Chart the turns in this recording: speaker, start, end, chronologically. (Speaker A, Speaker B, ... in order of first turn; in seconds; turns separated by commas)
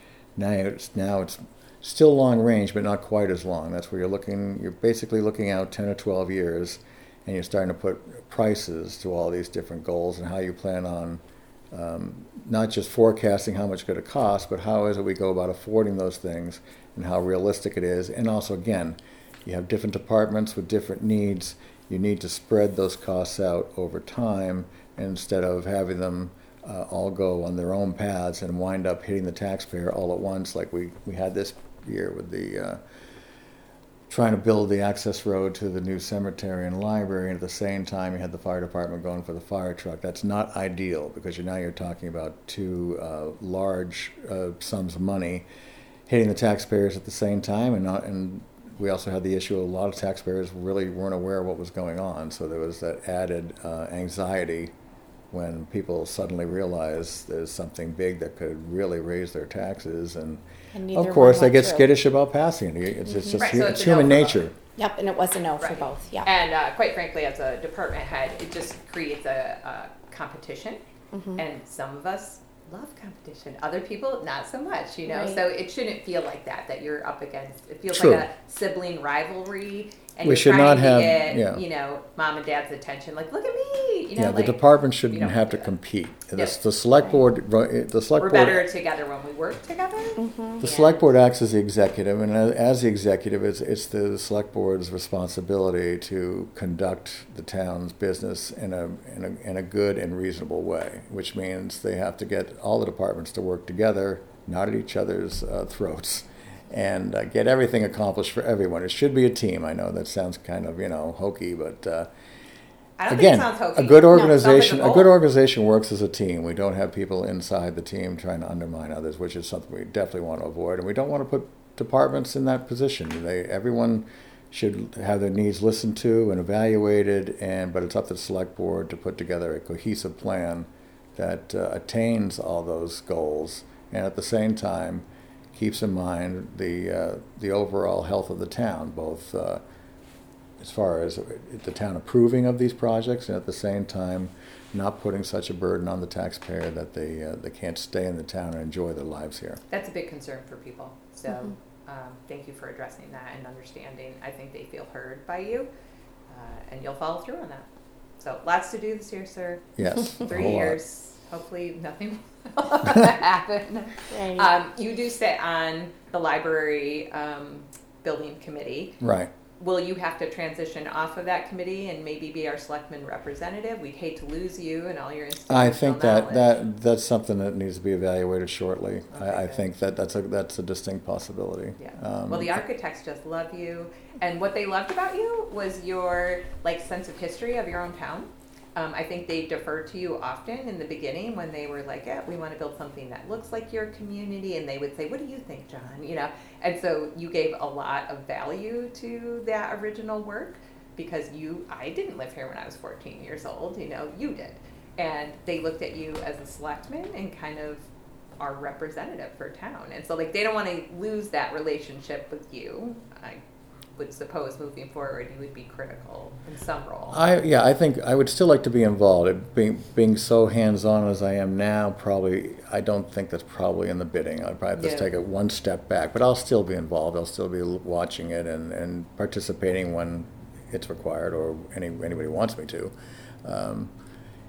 Speaker A: 0.3-11.2, Speaker A: 11.7-32.8, Speaker A: 34.1-45.5, Speaker A: 46.1-54.7, Speaker A: 55.3-64.5, Speaker B: 60.7-61.9, Speaker B: 63.1-63.4, Speaker C: 63.4-64.5, Speaker B: 64.8-66.3, Speaker C: 65.6-70.8, Speaker B: 71.1-71.4, Speaker C: 71.3-85.7, Speaker B: 75.0-75.4, Speaker A: 77.9-78.3, Speaker A: 80.2-81.6, Speaker A: 84.2-88.6, Speaker C: 88.2-91.0, Speaker B: 90.2-90.6, Speaker A: 90.6-112.1, Speaker C: 113.0-115.1, Speaker A: 113.1-139.6, Speaker B: 114.1-114.4, Speaker A: 140.6-149.6, Speaker C: 149.7-155.7, Speaker C: 156.3-157.7, Speaker C: 158.2-169.0, Speaker A: 159.8-160.8, Speaker B: 164.1-164.5, Speaker A: 169.0-169.3, Speaker C: 169.6-176.6, Speaker A: 175.5-182.6, Speaker C: 179.1-179.6, Speaker C: 181.8-207.9, Speaker C: 208.4-213.4, Speaker C: 214.0-217.2, Speaker A: 217.1-233.9, Speaker C: 224.7-225.1